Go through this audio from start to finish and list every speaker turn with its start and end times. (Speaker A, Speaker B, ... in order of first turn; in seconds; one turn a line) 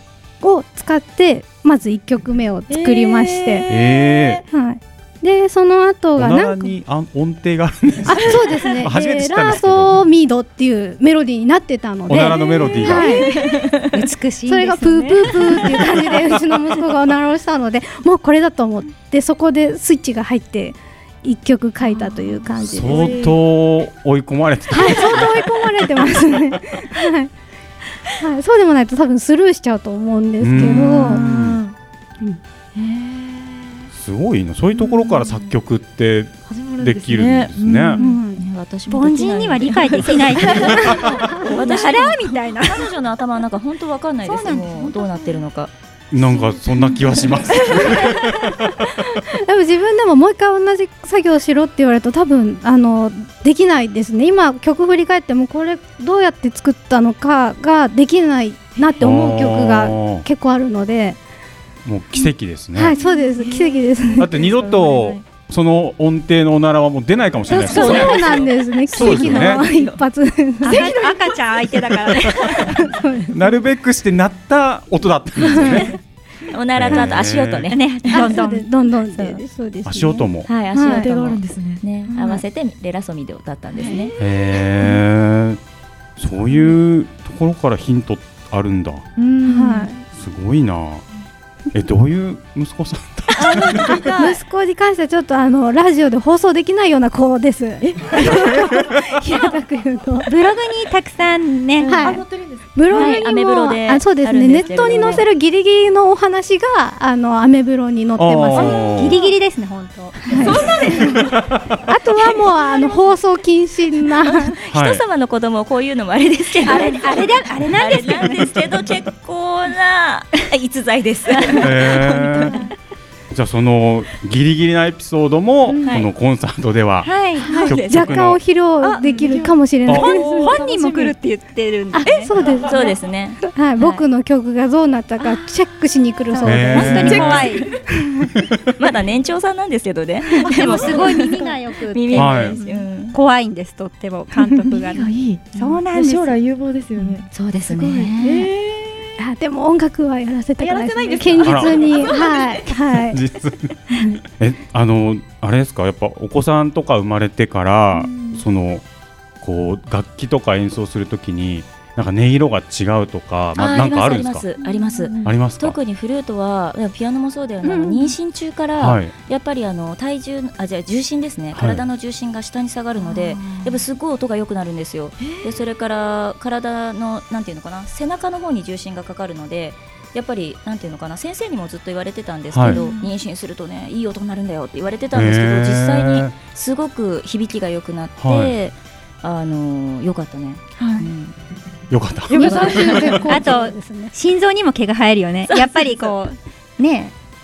Speaker A: 0.4-3.7
Speaker B: 2.7-4.5
Speaker C: 3.7-4.4
Speaker A: 4.5-6.7
Speaker C: 6.2-10.0
Speaker A: 8.1-13.5
Speaker C: 12.1-13.1
Speaker D: 12.9-13.2
Speaker E: 12.9-13.9
Speaker D: 13.9-15.9
Speaker A: 14.5-23.2
Speaker C: 22.6-25.9
Speaker B: 22.7-23.4
Speaker A: 24.7-27.3
Speaker A: 28.2-31.2
Speaker C: 30.4-31.6
Speaker B: 30.6-31.8
Speaker B: 32.7-33.9
Speaker C: 33.9-38.0
Speaker B: 34.7-35.6
Speaker B: 36.5-38.1
Speaker A: 38.0-38.4
Speaker E: 38.1-45.7
Speaker D: 38.9-42.9
Speaker B: 40.4-40.8
Speaker D: 44.2-45.4
Speaker C: 46.1-48.9
Speaker B: 46.2-46.9
Speaker A: 49.4-61.2
Speaker C: 59.0-60.3
Speaker C: 61.9-63.0
Speaker A: 62.7-64.3
Speaker B: 62.9-65.2
Speaker C: 64.2-69.6
Speaker A: 67.5-71.0
Speaker E: 67.7-70.0
Speaker B: 70.7-71.4
Speaker D: 70.7-72.8
Speaker C: 72.2-72.5
Speaker A: 72.7-73.5
Speaker C: 73.3-75.9
Speaker E: 76.5-78.4
Speaker C: 76.8-77.7
Speaker D: 77.7-78.7
Speaker A: 78.1-81.1
Speaker C: 79.8-80.5
Speaker E: 80.5-84.1
Speaker B: 80.8-82.4
Speaker B: 83.8-84.3
Speaker C: 84.2-85.6
Speaker C: 86.2-89.1
Speaker B: 89.2-89.9
Speaker A: 89.5-90.0
Speaker C: 90.1-91.1
Speaker C: 91.7-93.9
Speaker B: 93.4-94.4
Speaker A: 93.9-100.3
Speaker B: 97.8-99.5
Speaker D: 100.3-102.0
Speaker B: 101.8-103.3
Speaker A: 101.9-109.3
Speaker E: 102.9-105.2
Speaker B: 104.5-105.2
Speaker C: 108.2-109.2
Speaker D: 108.6-110.8
Speaker A: 110.3-110.7
Speaker B: 110.4-111.2
Speaker C: 111.3-111.8
Speaker A: 111.9-114.5
Speaker E: 114.5-122.5
Speaker C: 114.7-115.0
Speaker D: 116.6-118.7
Speaker C: 121.6-122.5
Speaker C: 123.3-127.1
Speaker D: 127.0-127.6
Speaker B: 127.4-127.8
Speaker A: 127.5-130.7
Speaker C: 127.6-128.4
Speaker B: 128.8-131.2
Speaker D: 129.9-132.3
Speaker A: 131.9-138.3
Speaker E: 132.7-134.1
Speaker C: 136.4-137.5
Speaker D: 136.6-137.7
Speaker E: 138.8-143.2
Speaker D: 140.5-146.4
Speaker B: 140.7-141.5
Speaker C: 142.2-142.6
Speaker B: 144.7-149.2
Speaker E: 147.0-148.5
Speaker A: 149.2-153.2
Speaker B: 150.6-152.7
Speaker C: 151.4-151.7
Speaker C: 153.1-153.8
Speaker A: 153.9-154.2
Speaker C: 154.3-158.8
Speaker B: 157.9-158.4
Speaker C: 159.4-164.4
Speaker E: 163.6-191.3
Speaker B: 164.6-165.3
Speaker C: 165.2-165.8
Speaker A: 167.7-168.1
Speaker C: 168.8-169.1
Speaker C: 171.5-171.8
Speaker B: 173.0-173.6
Speaker B: 175.2-175.6
Speaker C: 182.5-182.8
Speaker B: 182.7-183.1
Speaker C: 185.1-186.3
Speaker C: 188.2-188.6
Speaker B: 190.8-191.1
Speaker C: 191.9-193.2
Speaker B: 192.3-193.1
Speaker A: 192.3-194.2
Speaker E: 192.4-192.8
Speaker D: 193.3-197.1
Speaker E: 195.5-196.0